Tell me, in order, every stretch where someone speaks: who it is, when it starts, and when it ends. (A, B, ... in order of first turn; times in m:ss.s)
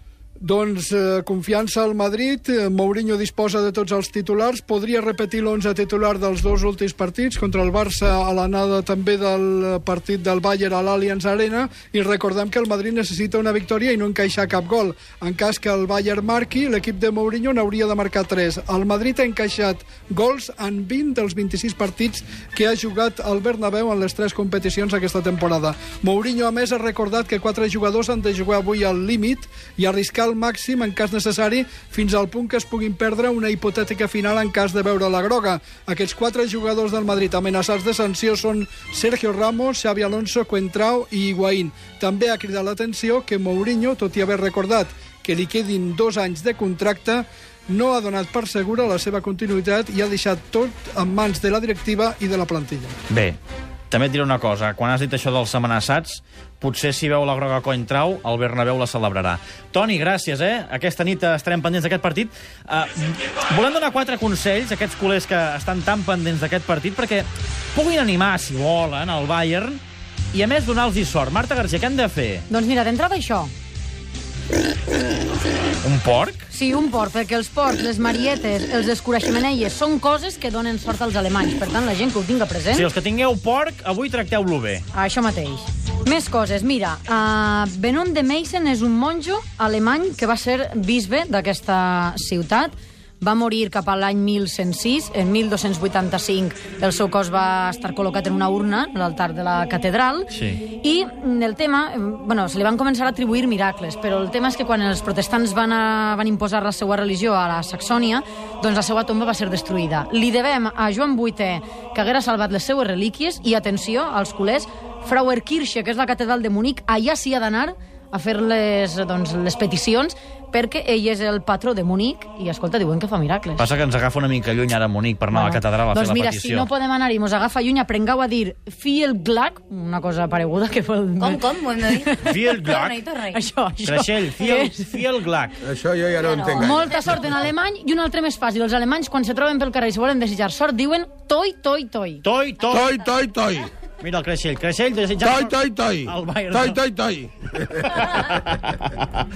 0:00.4-0:53.0 A
0:53.1-0:53.4 B
0:53.9-1:09.8 B
1:10.3-1:12.4 B
1:12.5-1:13.5 C
1:15.8-1:16.5 B
1:16.5-1:22.9 C
1:22.7-1:24.8 B
1:24.9-2:03.7 C
1:40.3-1:40.6 B
2:03.6-2:06.7 B
2:05.3-2:12.7 C
2:11.2-2:12.1 D
2:12.2-2:12.9 B
2:12.7-2:13.4 D
2:13.3-2:14.9 C
2:13.8-2:15.6 B
2:15.6-2:16.9 E
2:16.2-2:16.7 D
2:16.5-2:22.2 C
2:22.2-2:23.0 B
2:22.7-2:23.7 E
2:24.0-2:26.8 B
2:25.2-2:28.0 E
2:27.9-2:29.0 B